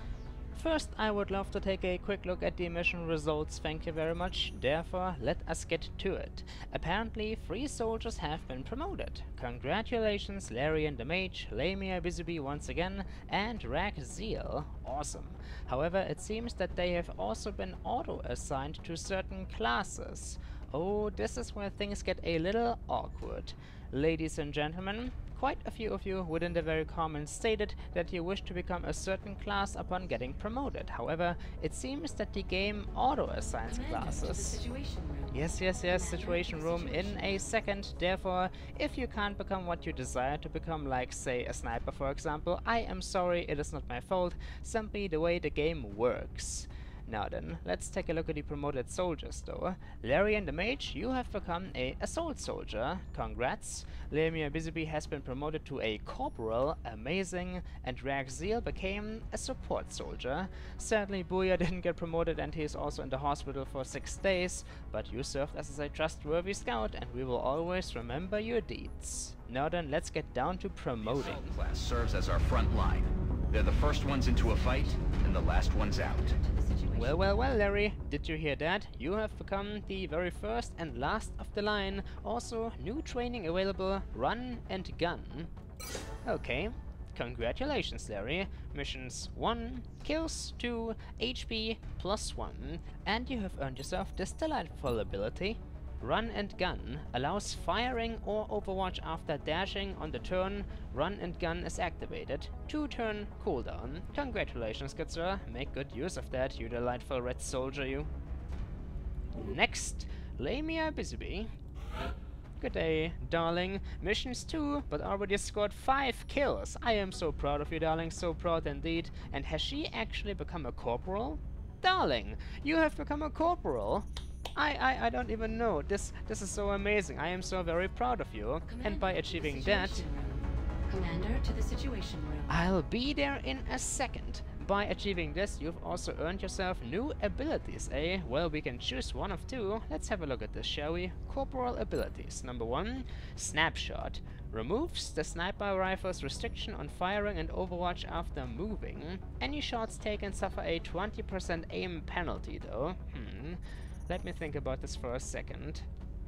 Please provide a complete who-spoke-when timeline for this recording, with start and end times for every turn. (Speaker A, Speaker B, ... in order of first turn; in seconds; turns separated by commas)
Speaker A: 0.5-34.6, Speaker B: 33.6-37.5, Speaker A: 35.3-71.4, Speaker C: 71.0-76.3, Speaker B: 74.3-75.0, Speaker B: 75.8-77.5, Speaker A: 76.9-85.5, Speaker A: 86.2-108.1, Speaker A: 109.3-111.5, Speaker A: 112.6-130.0, Speaker B: 128.7-132.6, Speaker A: 132.5-155.9